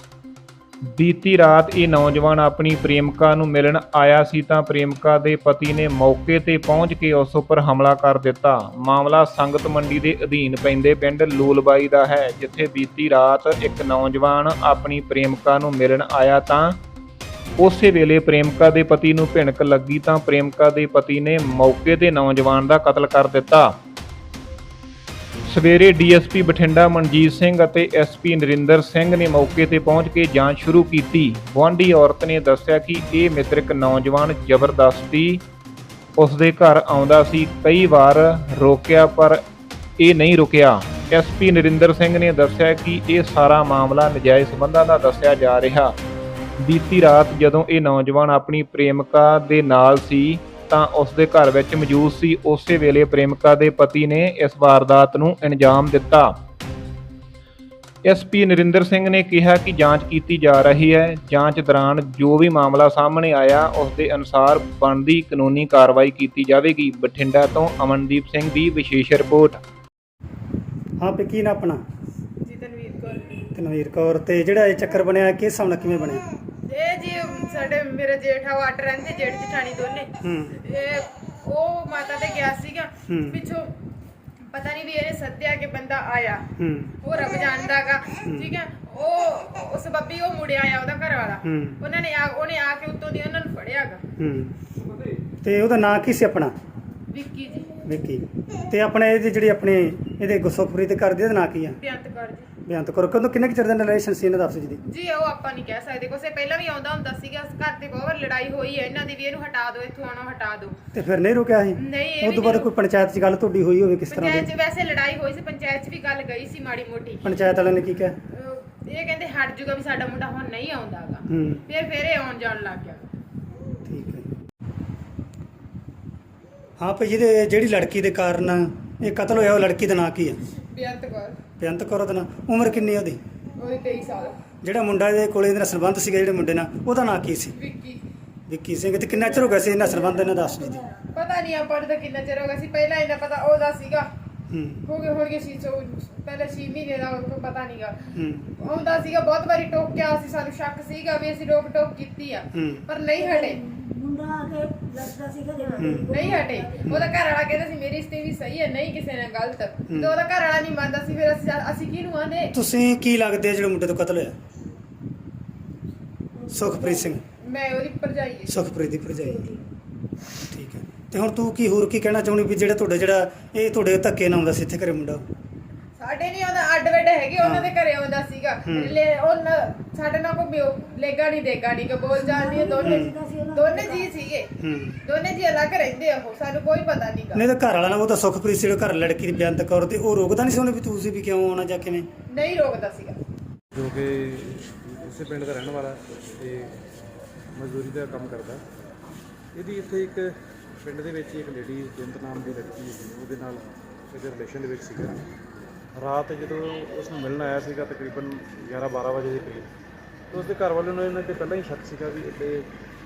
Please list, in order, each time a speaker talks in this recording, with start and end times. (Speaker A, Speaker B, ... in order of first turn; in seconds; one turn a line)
Speaker A: 0.9-16.8
Speaker A: 17.6-23.8
Speaker A: 25.5-35.4
Speaker A: 36.2-39.4
Speaker A: 40.0-46.0
Speaker A: 46.6-56.4
Speaker A: 58.0-69.6
Speaker B: 71.0-71.8
Speaker C: 72.4-73.5
Speaker B: 73.5-76.2
Speaker C: 76.7-83.7
Speaker B: 80.2-80.5
Speaker B: 83.1-83.4
Speaker C: 84.5-86.5
Speaker B: 86.6-86.9
Speaker C: 87.0-94.0
Speaker B: 91.4-91.8
Speaker B: 94.2-94.5
Speaker B: 95.4-96.5
Speaker C: 97.1-97.7
Speaker B: 97.8-101.8
Speaker C: 101.8-102.5
Speaker B: 102.7-104.8
Speaker C: 104.8-110.8
Speaker B: 110.9-114.5
Speaker C: 111.8-112.7
Speaker C: 114.1-117.3
Speaker B: 117.2-118.1
Speaker C: 118.3-123.1
Speaker B: 121.3-121.6
Speaker B: 123.8-124.3
Speaker B: 126.8-130.4
Speaker C: 130.7-131.4
Speaker B: 131.6-133.2
Speaker C: 133.6-134.4
Speaker B: 134.6-137.5
Speaker C: 137.5-138.0
Speaker B: 138.5-140.8
Speaker C: 141.1-144.1
Speaker B: 144.5-144.8
Speaker C: 144.8-153.6
Speaker B: 148.1-148.5
Speaker B: 152.5-152.8
Speaker D: 153.9-156.8
Speaker B: 155.8-156.1
Speaker C: 156.1-162.5
Speaker B: 162.5-164.3
Speaker B: 166.5-167.2
Speaker C: 167.4-168.5
Speaker B: 168.5-169.5
Speaker B: 170.5-175.2
Speaker C: 176.0-184.5
Speaker B: 177.4-177.7
Speaker B: 178.7-178.9
Speaker D: 182.2-184.0
Speaker B: 182.8-183.1
Speaker B: 184.6-185.0
Speaker C: 185.0-187.4
Speaker B: 187.3-192.1
Speaker C: 192.3-193.2
Speaker E: 193.7-196.8
Speaker E: 197.6-198.6
Speaker E: 199.5-205.3
Speaker E: 205.9-209.7
Speaker E: 210.3-212.7